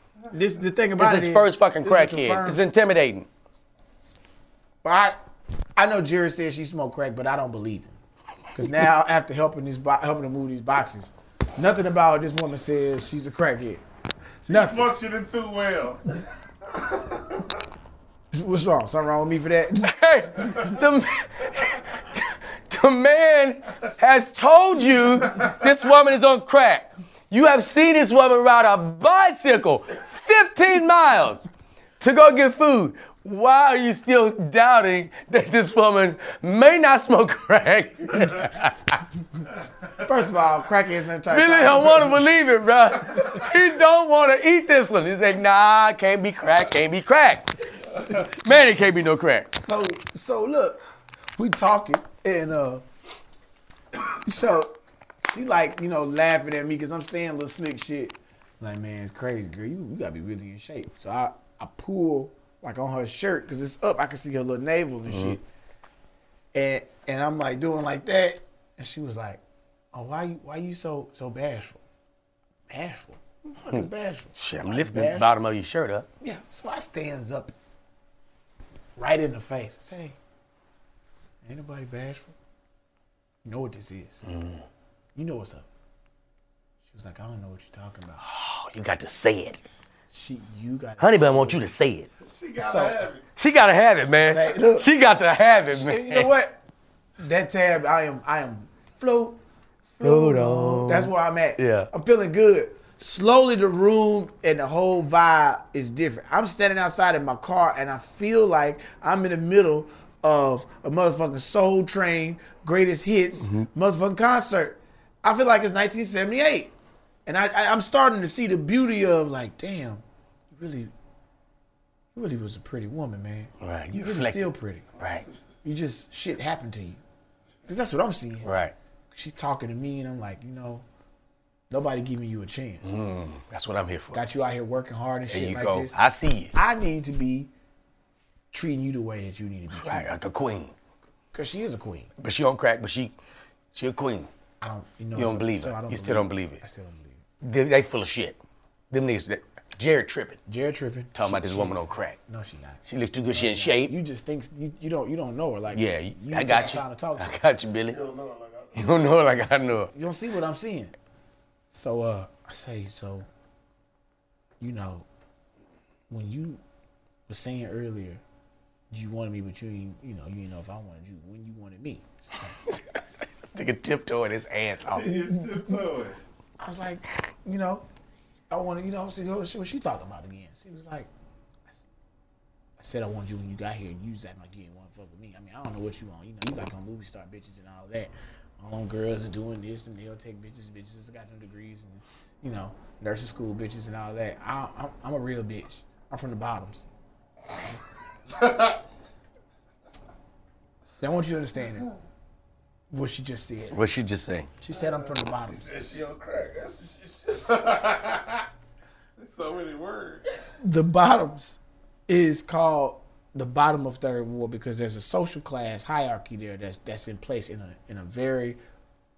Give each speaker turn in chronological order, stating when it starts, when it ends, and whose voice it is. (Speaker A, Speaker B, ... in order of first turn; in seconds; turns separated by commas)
Speaker A: 0.3-2.6, Speaker B: 1.0-3.3, Speaker A: 4.8-5.2, Speaker A: 5.8-8.0, Speaker A: 8.5-13.8, Speaker C: 14.4-16.2, Speaker A: 14.5-14.9, Speaker C: 16.8-17.4, Speaker A: 18.3-20.8, Speaker B: 19.8-31.5, Speaker B: 32.0-39.0, Speaker A: 40.0-42.2, Speaker B: 41.3-49.5, Speaker A: 49.5-50.8, Speaker A: 51.4-52.8, Speaker A: 53.9-65.4, Speaker B: 65.1-65.4, Speaker A: 66.5-69.4, Speaker A: 69.9-71.8, Speaker A: 72.7-75.3, Speaker B: 73.7-76.1, Speaker A: 76.2-77.5, Speaker A: 79.0-80.2, Speaker A: 81.4-82.3, Speaker A: 83.4-84.2, Speaker B: 84.2-84.6, Speaker A: 85.1-85.7, Speaker A: 86.8-88.2, Speaker B: 88.2-89.6, Speaker A: 90.1-91.7, Speaker B: 91.0-92.1, Speaker C: 92.3-93.2, Speaker A: 92.5-93.1, Speaker B: 93.3-96.3, Speaker A: 94.2-94.9, Speaker A: 95.7-96.6, Speaker A: 97.2-116.7, Speaker B: 100.0-101.9, Speaker B: 113.4-113.7, Speaker A: 117.2-120.9, Speaker A: 122.1-124.8, Speaker B: 123.6-125.3, Speaker A: 125.6-127.0, Speaker A: 127.7-128.6, Speaker B: 128.4-128.7, Speaker A: 129.1-130.8, Speaker A: 131.7-132.9, Speaker B: 132.8-134.2, Speaker A: 134.1-135.9, Speaker B: 135.3-136.5, Speaker A: 136.5-137.5, Speaker A: 138.5-140.1, Speaker B: 139.7-140.7, Speaker A: 141.3-142.1, Speaker B: 142.2-143.1, Speaker B: 143.7-144.3, Speaker A: 144.6-147.2, Speaker B: 145.1-146.6, Speaker B: 147.4-148.4, Speaker B: 148.9-150.4, Speaker A: 150.5-152.8, Speaker B: 151.1-152.2, Speaker B: 152.8-153.9, Speaker A: 153.3-157.3, Speaker B: 155.7-158.0, Speaker C: 157.9-159.2, Speaker B: 158.7-159.9, Speaker A: 159.5-160.9, Speaker A: 161.7-163.3, Speaker A: 164.6-165.1, Speaker A: 166.1-166.6, Speaker A: 167.3-168.2, Speaker A: 168.9-172.6, Speaker B: 173.5-175.2, Speaker C: 174.9-176.2, Speaker A: 175.2-175.8, Speaker A: 176.6-177.8, Speaker A: 178.5-181.1, Speaker A: 182.8-196.8, Speaker C: 198.3-198.7, Speaker A: 201.0-201.9, Speaker A: 202.9-203.8, Speaker B: 203.7-204.5, Speaker A: 204.6-205.9, Speaker C: 205.3-208.4, Speaker C: 209.2-210.5, Speaker A: 210.6-218.6